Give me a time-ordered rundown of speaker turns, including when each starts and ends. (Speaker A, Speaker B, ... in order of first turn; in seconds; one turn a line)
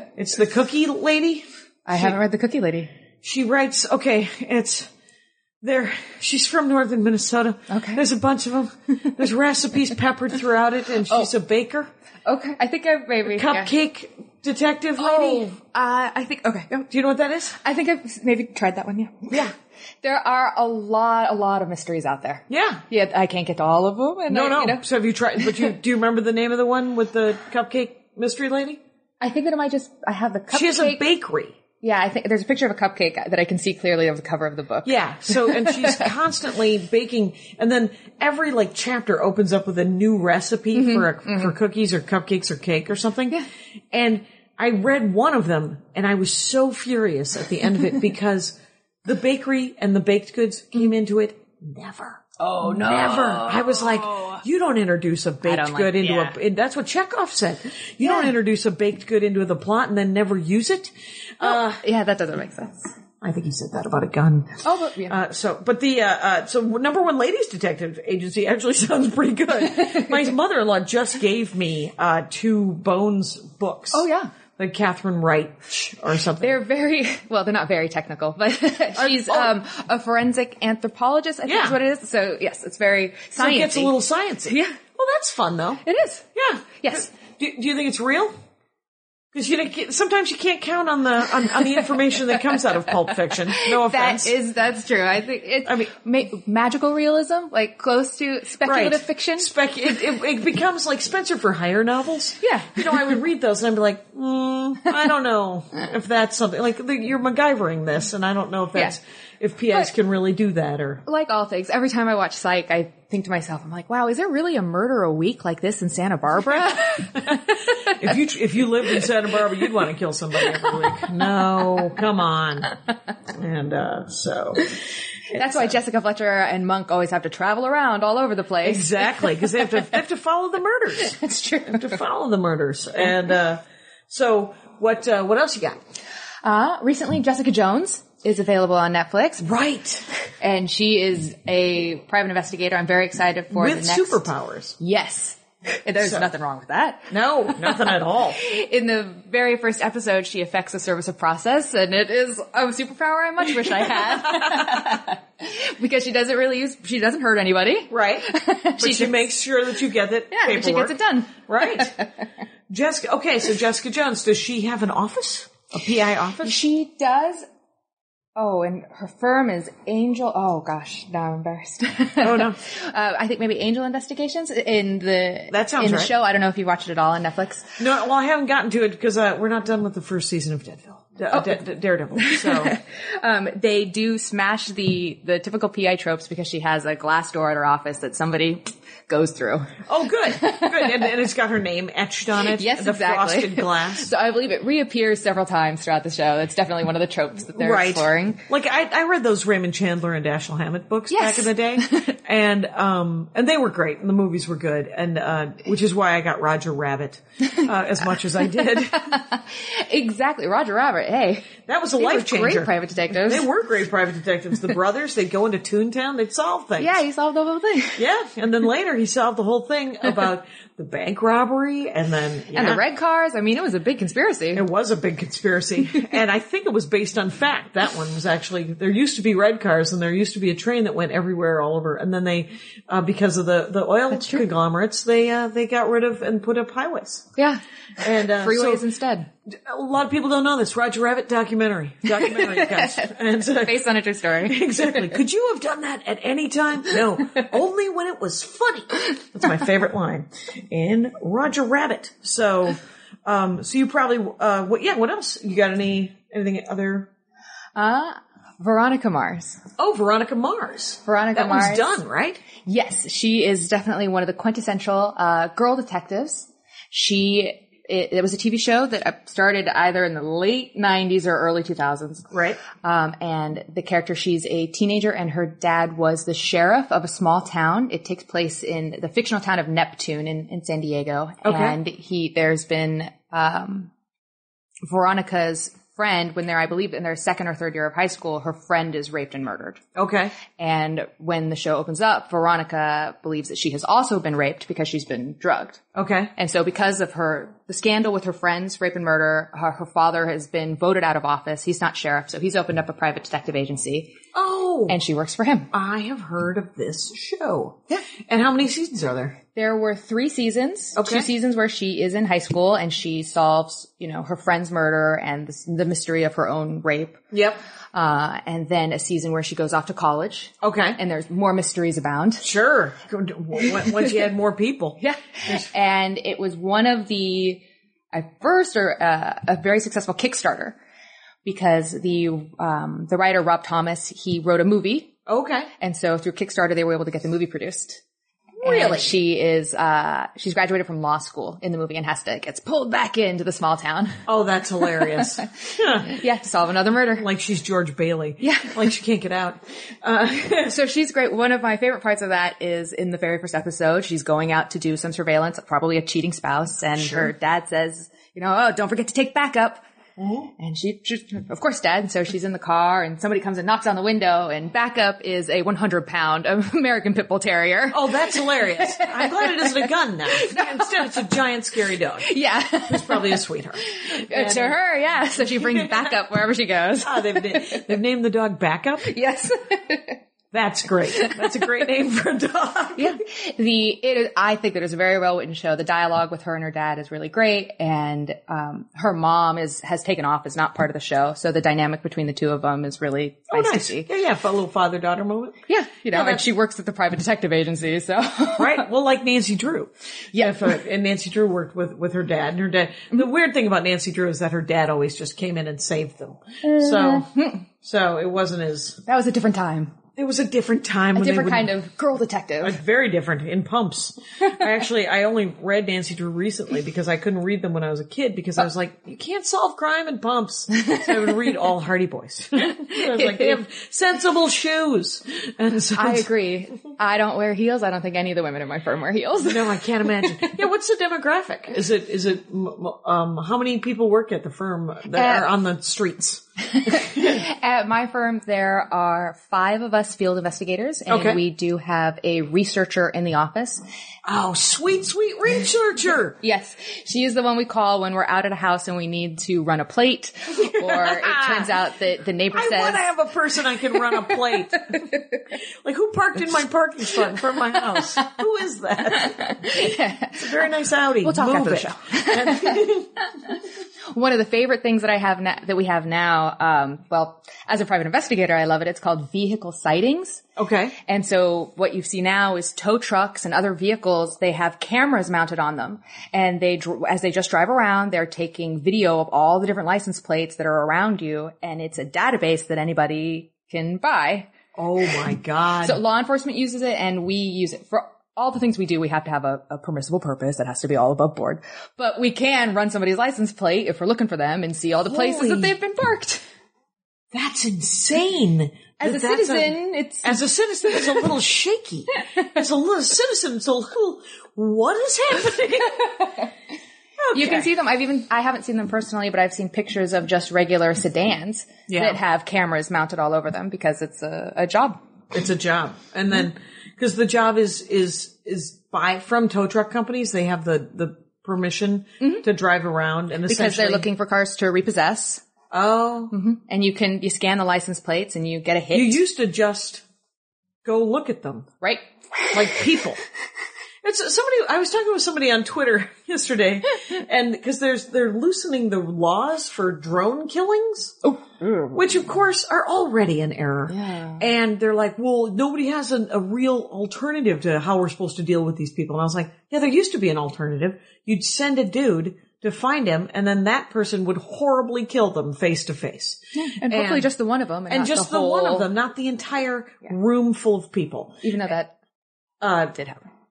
Speaker A: 0.1-2.1
Speaker B: 1.9-2.9
Speaker A: 3.2-4.9
Speaker A: 5.6-11.9
Speaker B: 7.7-8.0
Speaker B: 12.2-13.7
Speaker A: 13.3-15.5
Speaker B: 15.0-16.9
Speaker A: 16.9-17.6
Speaker B: 17.6-19.4
Speaker B: 20.0-24.8
Speaker A: 22.5-22.8
Speaker A: 24.3-28.8
Speaker B: 29.2-31.0
Speaker A: 30.5-31.6
Speaker B: 31.8-36.1
Speaker A: 34.8-43.4
Speaker B: 40.7-41.5
Speaker A: 43.9-61.8
Speaker B: 52.4-54.4
Speaker B: 55.4-56.4
Speaker B: 61.4-62.9
Speaker A: 63.2-74.0
Speaker B: 64.6-65.2
Speaker B: 73.9-74.3
Speaker A: 74.6-76.6
Speaker B: 76.4-83.9
Speaker A: 78.9-79.5
Speaker A: 81.5-81.8
Speaker A: 83.4-85.8
Speaker B: 84.5-84.8
Speaker B: 85.8-86.3
Speaker A: 86.3-88.3
Speaker B: 86.8-87.1
Speaker A: 89.3-94.3
Speaker B: 93.5-99.5
Speaker A: 95.6-95.9
Speaker A: 98.6-111.0
Speaker B: 102.4-103.0
Speaker B: 111.0-117.9
Speaker A: 116.7-117.3
Speaker A: 117.9-122.7
Speaker B: 120.8-121.3
Speaker A: 123.3-124.8
Speaker A: 125.3-125.7
Speaker B: 125.3-129.3
Speaker A: 128.6-135.8
Speaker B: 131.0-132.0
Speaker B: 136.4-139.4
Speaker A: 139.4-140.1
Speaker B: 140.4-144.3
Speaker A: 143.5-144.8
Speaker B: 144.8-147.1
Speaker A: 146.0-146.3
Speaker A: 147.1-148.4
Speaker B: 147.7-159.2
Speaker A: 153.7-154.9
Speaker A: 157.9-161.9
Speaker B: 160.3-162.1
Speaker A: 162.7-166.6
Speaker B: 166.4-167.4
Speaker B: 168.3-177.8
Speaker A: 172.2-172.6
Speaker A: 175.5-176.1
Speaker A: 177.8-182.8
Speaker B: 181.3-181.6
Speaker B: 182.2-189.7
Speaker A: 189.8-194.1
Speaker B: 190.3-190.9
Speaker B: 192.6-198.4
Speaker A: 197.5-209.1
Speaker B: 201.1-202.2
Speaker B: 208.7-213.5
Speaker A: 211.7-217.0
Speaker B: 216.8-218.0
Speaker A: 218.0-222.8
Speaker B: 222.5-224.6
Speaker A: 224.5-237.3
Speaker B: 234.1-234.4
Speaker A: 238.0-238.8
Speaker B: 238.1-239.3
Speaker A: 239.5-243.9
Speaker B: 242.1-245.0
Speaker A: 244.4-257.1
Speaker B: 257.8-259.6
Speaker A: 259.8-262.4
Speaker B: 261.1-262.0
Speaker B: 262.6-272.3
Speaker A: 272.3-272.6
Speaker B: 272.8-283.9
Speaker A: 281.4-281.8
Speaker B: 284.9-289.8
Speaker A: 289.9-290.3
Speaker B: 290.6-295.8
Speaker A: 295.9-296.3
Speaker B: 296.4-304.1
Speaker A: 304.3-305.0
Speaker B: 304.9-305.7
Speaker A: 305.7-309.4
Speaker B: 309.5-317.2
Speaker A: 310.9-311.3
Speaker A: 317.3-317.6
Speaker B: 317.9-322.5
Speaker A: 320.6-321.0
Speaker A: 322.4-325.7
Speaker B: 325.0-330.8
Speaker B: 331.4-335.1
Speaker A: 335.3-335.7
Speaker B: 335.8-338.0
Speaker A: 338.6-339.1
Speaker B: 338.6-344.2
Speaker A: 344.3-346.1
Speaker B: 345.1-347.3
Speaker A: 347.2-350.7
Speaker B: 348.4-348.9
Speaker B: 350.7-359.8
Speaker A: 357.0-357.3
Speaker A: 360.2-360.5
Speaker B: 360.6-371.2
Speaker A: 367.9-372.3
Speaker B: 372.2-377.9
Speaker A: 372.9-374.8
Speaker A: 375.4-376.2
Speaker A: 377.0-379.1
Speaker B: 379.0-380.2
Speaker A: 380.5-383.2
Speaker B: 381.2-381.4
Speaker B: 382.9-394.1
Speaker A: 393.5-395.6
Speaker B: 395.7-398.9
Speaker A: 396.1-396.5
Speaker A: 398.6-407.3
Speaker B: 400.3-400.6
Speaker B: 406.6-407.6
Speaker A: 407.8-409.0
Speaker B: 409.1-410.0
Speaker A: 410.1-411.7
Speaker B: 411.1-412.8
Speaker A: 412.6-426.3
Speaker B: 422.8-423.6
Speaker B: 425.9-430.5
Speaker A: 429.4-437.4
Speaker B: 435.1-435.4
Speaker B: 436.7-443.8
Speaker A: 441.1-441.4
Speaker A: 444.2-446.4
Speaker B: 446.4-453.0
Speaker A: 450.6-451.8
Speaker A: 452.5-455.0
Speaker B: 454.2-455.2
Speaker A: 455.8-463.1
Speaker B: 457.9-458.2
Speaker B: 459.2-460.6
Speaker B: 461.2-463.6
Speaker B: 464.1-470.4
Speaker A: 470.6-470.9
Speaker B: 471.0-484.5
Speaker A: 484.7-486.0
Speaker B: 485.8-496.4
Speaker A: 495.1-495.7
Speaker A: 497.3-506.3
Speaker B: 499.0-501.2
Speaker A: 507.2-507.7
Speaker B: 507.3-515.0
Speaker A: 511.9-512.2
Speaker A: 515.3-524.1
Speaker B: 523.5-525.4
Speaker A: 525.7-526.3
Speaker B: 526.3-529.2
Speaker A: 528.9-530.0
Speaker A: 530.8-531.7
Speaker B: 531.8-532.6
Speaker A: 532.5-533.2
Speaker A: 534.0-541.2
Speaker B: 541.2-542.0
Speaker A: 541.9-557.3
Speaker B: 543.9-544.5
Speaker B: 556.5-558.9
Speaker A: 557.9-561.4
Speaker B: 561.4-561.9
Speaker A: 562.6-563.0
Speaker B: 562.9-563.3